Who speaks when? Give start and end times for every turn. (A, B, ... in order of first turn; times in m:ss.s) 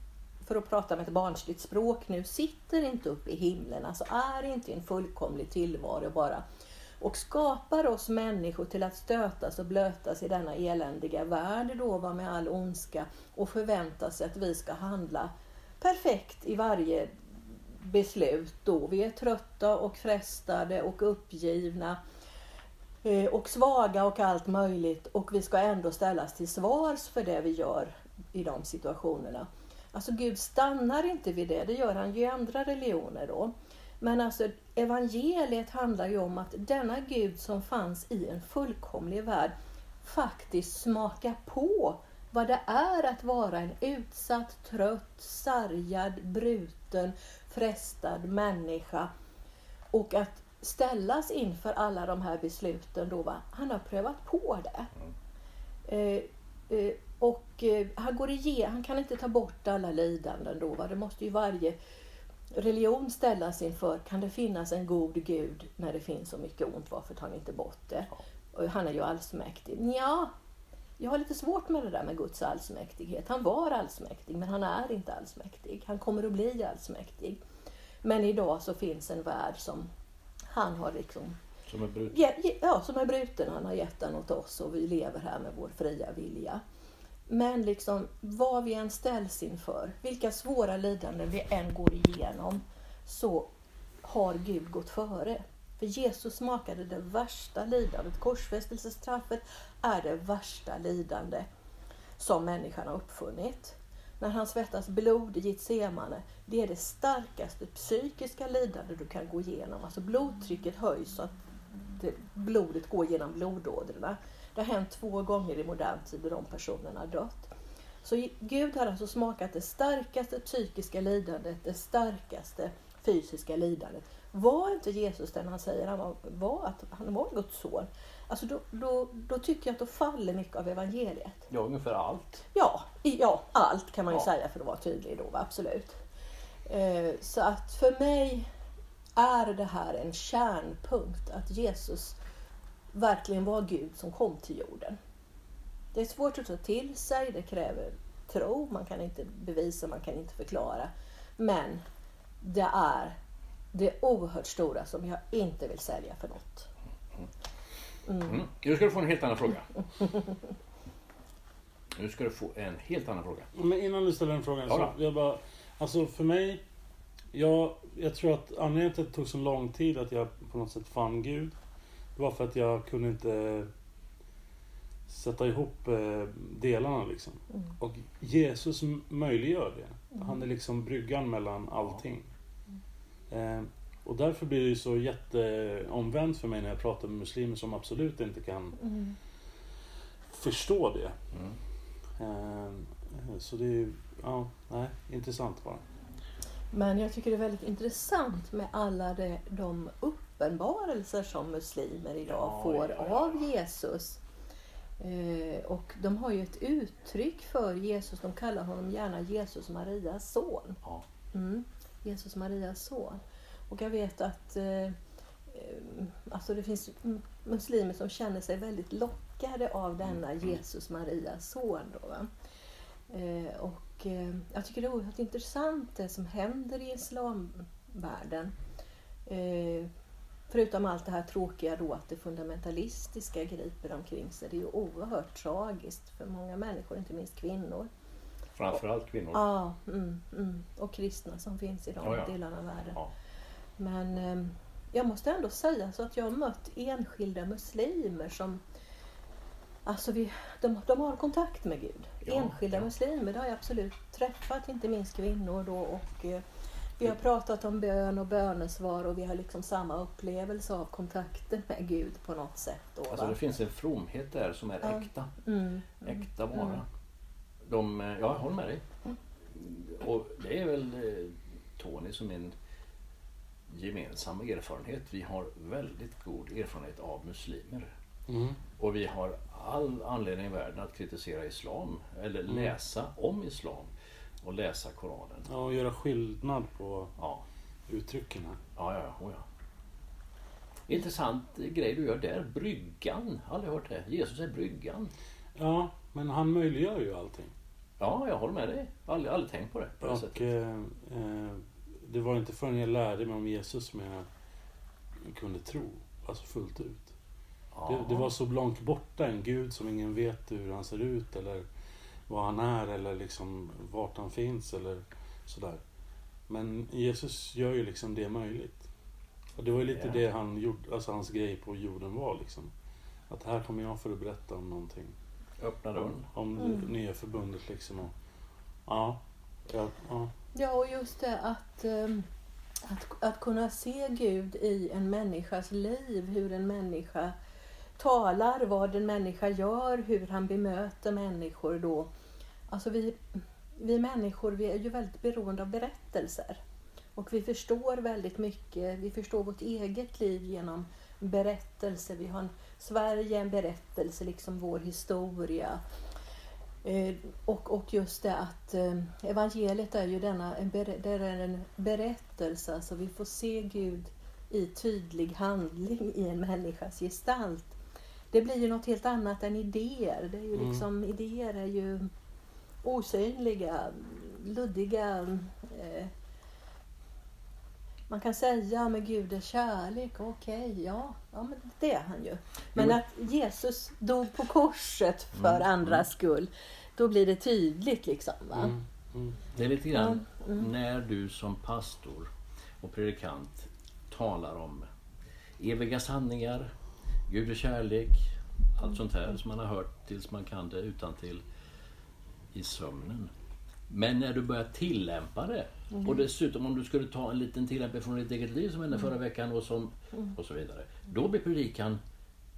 0:00.4-0:06.4 A
0:07.0-0:17.1 A
0:17.8-0:22.0 A
0:23.0-0:49.1 A
0:49.9-0:54.9 A
0:55.9-1:01.8 A
1:02.5-1:10.3 A
1:11.0-1:17.4 A
1:18.0-1:19.9 A
1:20.5-1:21.4 A
1:21.7-1:22.2 B
1:22.1-1:26.6 A
1:27.3-1:33.5 A
1:34.0-1:41.5 A
1:42.2-1:57.5 A
1:58.0-2:11.4 A
2:11.5-2:12.4 B
2:12.5-2:16.0 A
2:16.7-2:18.5 A
2:19.2-2:22.2 A
2:22.9-2:25.0 A
2:25.9-2:31.8 A
2:32.4-2:33.2 A
2:33.7-2:36.7 A
2:38.1-2:38.4 A
2:38.2-2:39.7 B
2:42.0-2:43.5 B
2:43.6-2:46.6 C
2:44.7-2:44.9 B
2:47.3-2:51.6 C
2:52.2-2:53.7 C
2:55.1-3:02.3 C
3:00.1-3:00.4 A
3:03.3-3:08.8 C
3:08.8-3:09.2 A
3:10.3-3:11.1 C
3:11.3-3:11.6 B
3:12.2-3:15.8 C
3:16.7-3:24.2 A
3:22.3-3:23.4 B
3:25.0-3:30.8 A
3:31.3-3:35.0 A
3:35.5-3:42.3 A
3:43.1-3:48.5 A
3:49.3-3:49.9 A
3:50.5-3:57.9 A
3:58.6-3:59.4 B
3:59.3-4:03.0 A
4:02.0-4:02.3 B
4:03.8-4:08.6 A
4:09.8-4:16.4 A
4:12.2-4:12.8 B
4:17.0-4:23.4 A
4:23.1-4:25.4 B
4:24.8-4:26.8 A
4:26.0-4:26.8 B
4:27.6-4:28.8 B
4:29.5-4:32.5 B
4:33.7-4:37.9 B
4:38.3-4:38.6 C
4:38.8-4:43.9 B
4:42.5-4:42.7 C
4:44.4-4:45.5 B
4:45.5-4:47.1 C
4:47.2-4:47.4 B
4:47.9-4:48.6 C
4:48.8-4:49.4 B
4:50.9-4:55.1 B
4:55.6-4:57.5 C
4:58.0-5:00.5 B
5:00.0-5:04.2 C
5:05.2-5:07.1 C
5:07.7-5:08.3 B
5:07.9-5:11.6 C
5:12.3-5:15.8 C
5:16.5-5:18.8 C
5:19.6-5:22.7 C
5:19.9-5:20.2 B
5:23.3-5:25.1 C
5:25.6-5:26.3 B
5:26.0-5:28.1 C
5:26.6-5:26.9 A
5:28.9-5:30.3 C
5:30.5-5:32.2 A
5:32.8-5:37.3 A
5:38.0-5:42.1 A
5:42.7-5:46.6 A
5:47.2-5:55.8 A
5:56.8-6:07.8 A
6:08.3-6:12.1 A
6:10.6-6:10.8 C
6:12.8-6:16.1 A
6:18.1-6:28.8 A
6:25.4-6:26.0 B
6:28.5-6:29.4 C
6:29.5-6:32.3 B
6:29.9-6:30.7 A
6:32.8-6:34.8 B
6:35.6-6:36.7 B
6:37.3-6:41.4 B
6:42.5-6:43.3 B
6:43.9-6:52.0 B
6:45.9-6:46.2 A